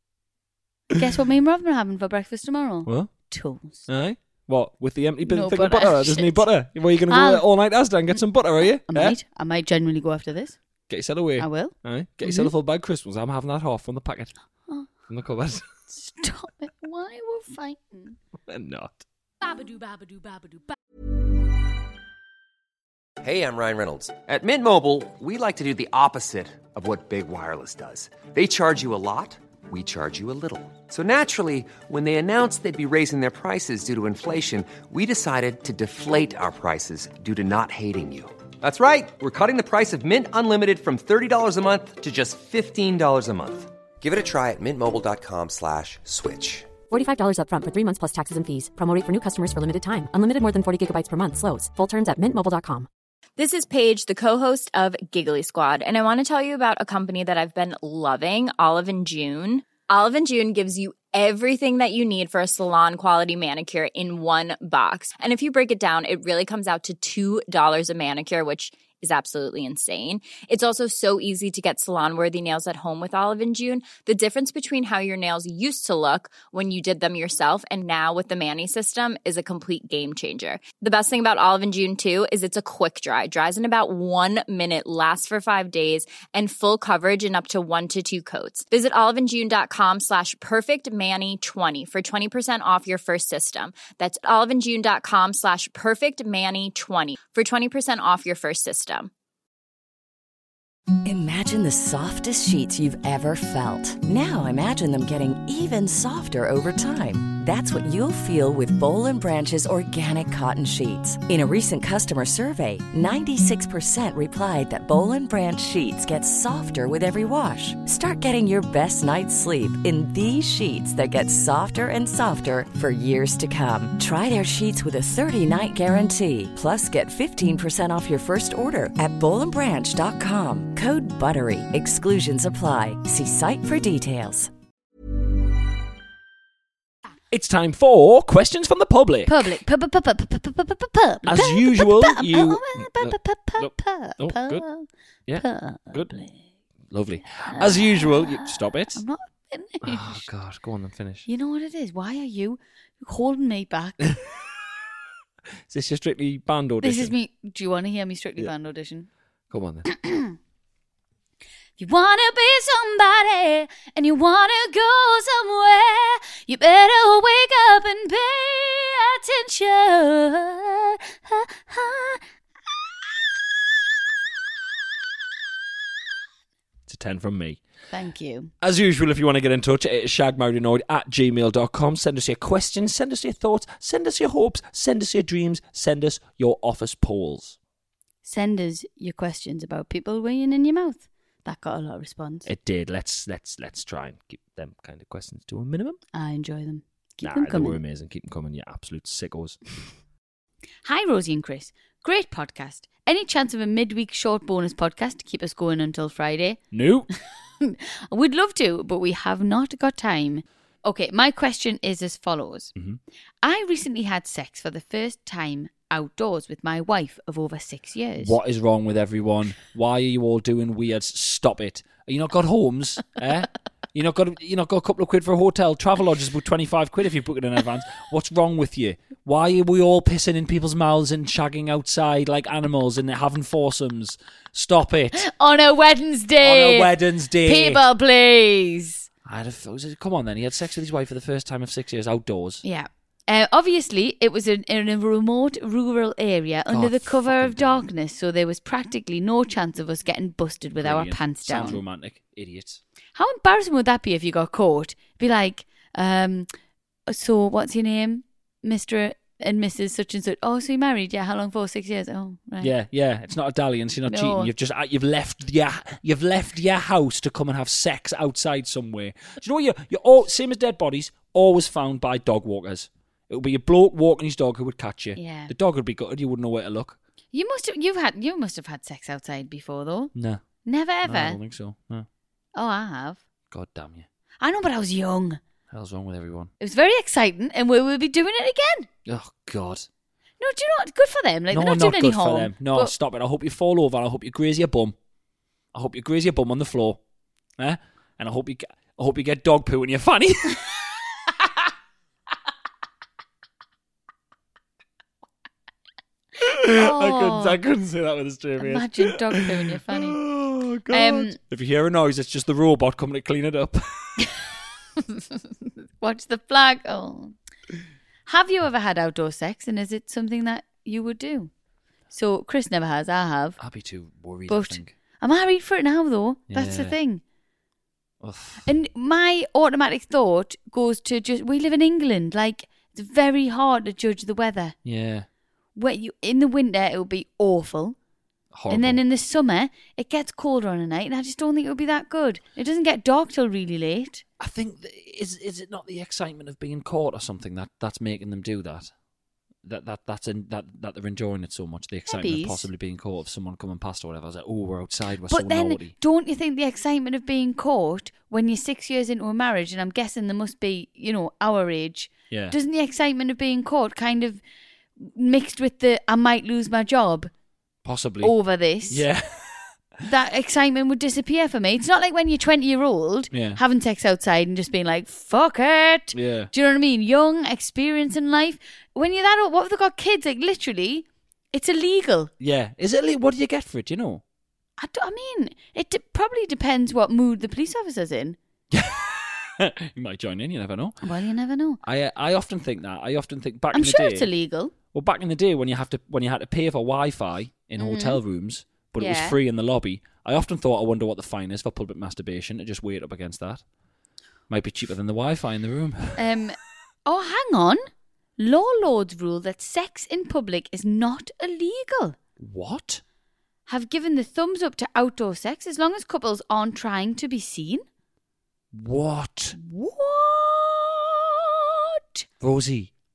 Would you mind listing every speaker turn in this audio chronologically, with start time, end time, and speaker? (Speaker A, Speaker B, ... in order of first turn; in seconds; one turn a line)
Speaker A: 0.9-3.8
Speaker B: 2.8-3.1
Speaker B: 3.9-9.1
Speaker A: 5.2-6.5
Speaker A: 7.1-7.4
Speaker A: 8.9-10.6
Speaker B: 10.9-14.3
Speaker A: 11.4-12.5
Speaker B: 15.1-15.7
Speaker A: 15.9-18.2
Speaker B: 18.5-19.0
Speaker C: 23.2-46.7
Speaker D: 46.9-52.9
Speaker E: 53.4-99.1
Speaker F: 101.0-134.5
Speaker B: 137.3-139.5
Speaker A: 139.2-146.4
Speaker B: 141.2-144.7
Speaker B: 145.3-146.1
Speaker B: 146.9-149.0
Speaker A: 147.5-150.2
Speaker B: 149.8-151.3
Speaker A: 151.2-154.1
Speaker B: 154.0-154.5
Speaker B: 155.7-157.1
Speaker A: 156.8-159.1
Speaker B: 159.5-159.8
Speaker A: 159.8-160.4
Speaker A: 161.8-172.2
Speaker B: 176.9-177.6
Speaker A: 177.9-178.5
Speaker B: 178.6-187.6
Speaker A: 188.2-192.5
Speaker B: 192.4-196.0
Speaker A: 196.1-197.8
Speaker B: 197.2-199.6
Speaker A: 200.8-206.6
Speaker B: 206.7-207.1
Speaker A: 207.6-212.7
Speaker A: 213.4-218.4
Speaker B: 218.2-235.2
Speaker A: 235.2-239.1
Speaker B: 236.4-237.8
Speaker B: 239.2-242.6
Speaker A: 242.6-251.8
Speaker B: 246.7-247.8
Speaker B: 250.8-252.8
Speaker A: 253.2-256.5
Speaker A: 257.1-262.7
Speaker B: 262.6-277.0
Speaker A: 264.1-264.5
Speaker A: 275.1-275.5
Speaker A: 277.3-280.1
Speaker B: 280.1-280.4
Speaker A: 280.6-281.4
Speaker B: 281.0-282.1
Speaker A: 282.5-283.2
Speaker B: 283.5-284.1
Speaker A: 284.4-285.4
Speaker B: 285.7-286.5
Speaker A: 286.6-288.9
Speaker B: 289.1-289.9
Speaker A: 290.4-292.9
Speaker B: 291.5-294.9
Speaker B: 295.7-297.0
Speaker B: 297.6-300.7
Speaker B: 306.4-314.4
Speaker A: 306.7-307.6
Speaker A: 308.6-310.2
Speaker A: 310.9-311.4
Speaker A: 316.0-317.3
Speaker A: 318.3-321.5
Speaker A: 322.1-323.6
Speaker B: 323.6-324.9
Speaker A: 324.5-327.2
Speaker B: 326.5-326.9
Speaker B: 328.2-328.7
Speaker A: 328.6-334.8
Speaker B: 334.8-335.3
Speaker A: 335.8-337.9
Speaker B: 338.5-339.0
Speaker A: 338.7-344.2
Speaker B: 344.4-348.9
Speaker B: 349.6-355.9
Speaker A: 352.1-352.6
Speaker A: 355.3-364.4
Speaker B: 362.3-362.6
Speaker A: 365.0-367.3
Speaker B: 367.8-368.3
Speaker A: 368.2-369.0
Speaker B: 368.9-369.8
Speaker A: 370.0-382.3
Speaker B: 373.3-373.6
Speaker B: 376.1-376.5
Speaker B: 382.4-384.2
Speaker A: 384.8-388.4
Speaker B: 388.7-391.0
Speaker A: 391.0-391.8
Speaker B: 391.8-394.3
Speaker A: 393.7-394.7
Speaker B: 394.9-403.6
Speaker A: 397.8-398.2
Speaker A: 399.0-399.4
Speaker B: 404.5-406.2
Speaker A: 406.2-407.8
Speaker A: 408.4-412.2
Speaker B: 412.4-413.0
Speaker A: 413.7-417.8
Speaker B: 418.7-419.6
Speaker A: 419.6-422.2
Speaker B: 422.4-422.9